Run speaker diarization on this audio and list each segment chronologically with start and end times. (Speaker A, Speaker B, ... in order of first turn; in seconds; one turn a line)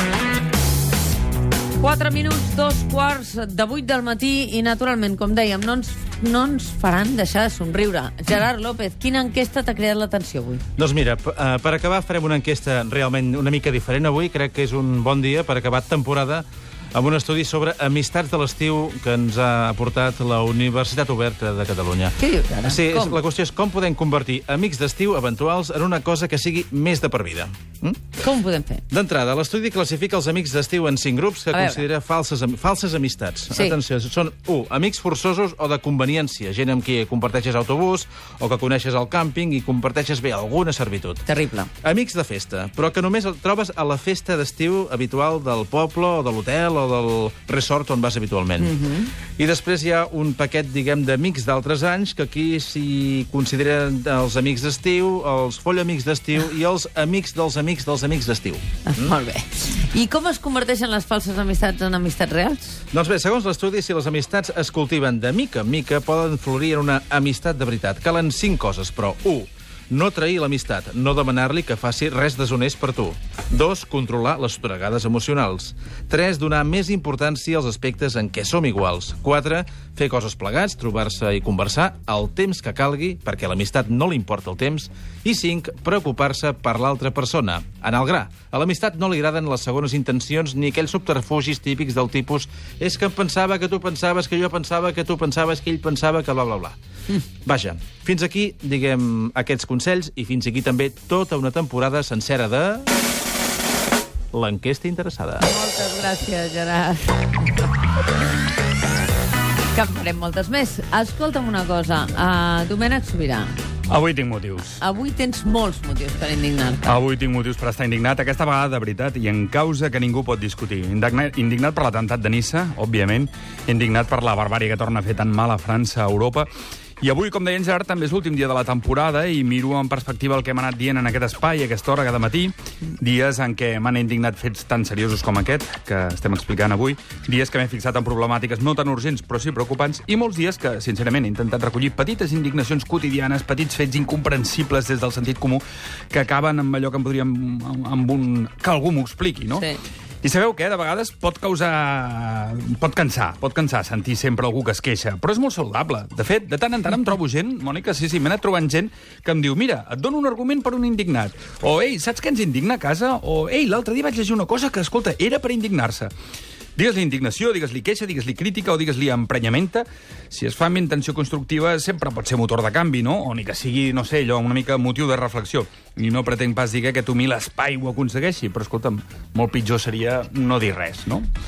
Speaker A: 1.8-10.6
Speaker B: 10.8-28.1
Speaker A: 22.2-23.2
Speaker A: 28.2-28.8
Speaker B: 28.9-41.2
Speaker A: 31.5-31.8
Speaker A: 41.2-41.7
Speaker B: 41.8-48.8
Speaker A: 48.6-49.1
Speaker B: 49.4-59.1
Speaker A: 58.9-62.8
Speaker B: 62.9-102.9
Speaker B: 104.3-105.5
Speaker A: 105.4-107.6
Speaker A: 109.7-113.6
Speaker C: 113.9-114.8
Speaker A: 114.8-117.0
Speaker C: 116.8-126.5
Speaker C: 127.0-149.7
Speaker C: 150.2-166.1
Speaker C: 166.8-181.3